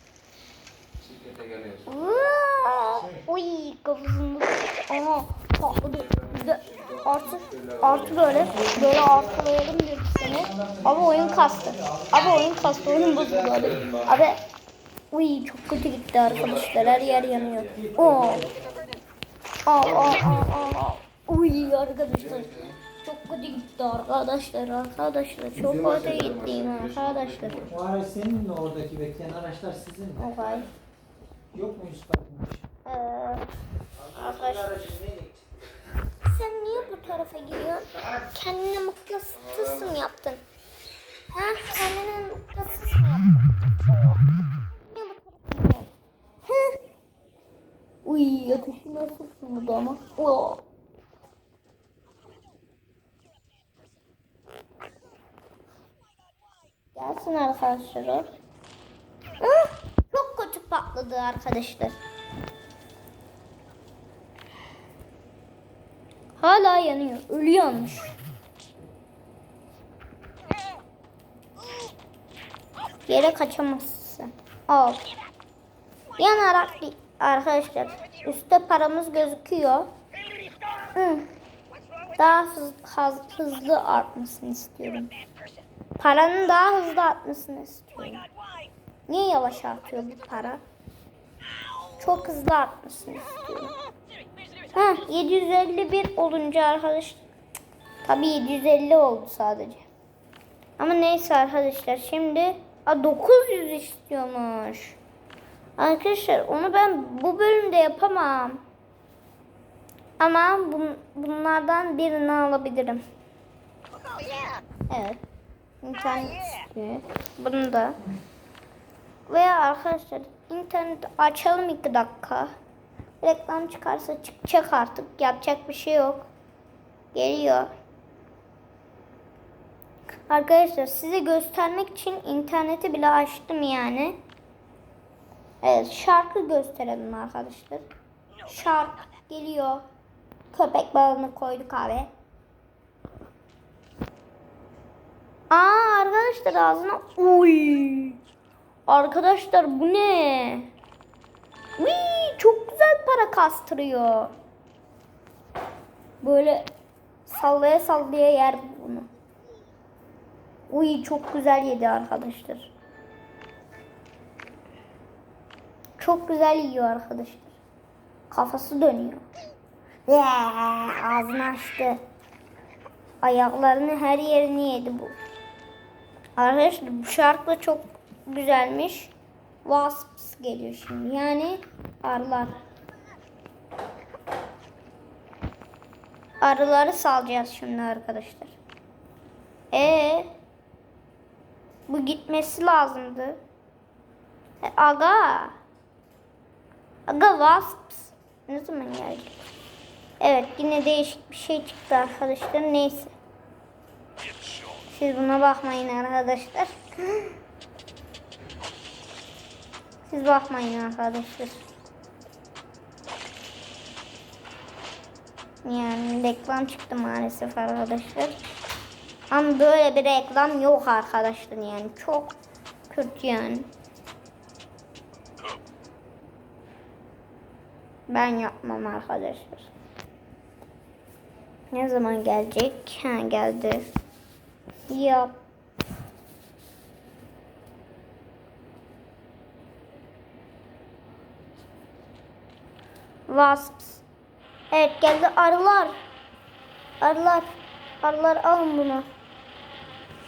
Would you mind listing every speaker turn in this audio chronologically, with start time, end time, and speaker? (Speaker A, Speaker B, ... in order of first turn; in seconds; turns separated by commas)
Speaker A: 1.0-1.9, Speaker B: 1.9-14.4, Speaker C: 2.9-3.2, Speaker A: 5.8-8.3, Speaker C: 8.2-12.8, Speaker A: 12.5-14.1, Speaker B: 15.1-18.5, Speaker A: 16.2-17.8, Speaker C: 17.7-18.9, Speaker B: 19.6-27.6, Speaker A: 19.8-20.5, Speaker A: 22.2-22.7, Speaker A: 25.6-27.8, Speaker C: 27.7-30.7, Speaker B: 30.2-30.7, Speaker C: 31.5-32.7, Speaker B: 32.8-33.5, Speaker C: 33.9-35.4, Speaker B: 34.1-34.9, Speaker B: 36.2-40.4, Speaker A: 39.5-39.9, Speaker B: 41.3-43.5, Speaker B: 44.8-45.9, Speaker B: 46.5-46.8, Speaker B: 48.0-50.6, Speaker B: 56.9-58.3, Speaker B: 59.4-62.0, Speaker B: 66.4-68.1, Speaker B: 73.1-75.0, Speaker B: 76.2-79.9, Speaker B: 80.9-81.3, Speaker B: 82.1-85.1, Speaker B: 86.0-88.2, Speaker B: 89.1-90.6, Speaker B: 92.0-93.7, Speaker B: 94.7-97.2, Speaker B: 98.0-99.9, Speaker B: 100.8-105.0, Speaker B: 105.8-108.6, Speaker B: 110.2-113.0, Speaker B: 114.9-115.2, Speaker B: 115.8-118.0, Speaker B: 119.3-122.5, Speaker B: 123.2-126.3, Speaker B: 127.1-127.7, Speaker B: 130.3-134.2, Speaker B: 135.6-137.9, Speaker B: 138.4-139.8, Speaker B: 140.5-142.1, Speaker B: 145.5-148.2, Speaker B: 148.9-150.7, Speaker B: 151.8-154.3, Speaker B: 156.2-156.7, Speaker B: 157.2-159.1, Speaker B: 160.7-162.7, Speaker B: 166.0-167.6, Speaker B: 168.3-169.2, Speaker B: 170.1-172.0, Speaker B: 173.2-175.1, Speaker B: 176.4-179.1, Speaker B: 179.6-182.6, Speaker B: 186.4-188.6, Speaker B: 189.7-190.3, Speaker B: 191.9-193.4, Speaker B: 194.6-195.6, Speaker B: 197.1-199.4, Speaker B: 200.2-203.2, Speaker B: 204.9-207.3, Speaker B: 210.1-211.7, Speaker B: 215.6-218.4, Speaker B: 219.3-222.3, Speaker B: 222.9-223.7, Speaker B: 228.1-229.7, Speaker B: 231.7-233.9, Speaker B: 234.9-235.3, Speaker B: 243.3-244.0, Speaker B: 244.7-245.9, Speaker B: 247.0-247.5, Speaker B: 248.0-249.1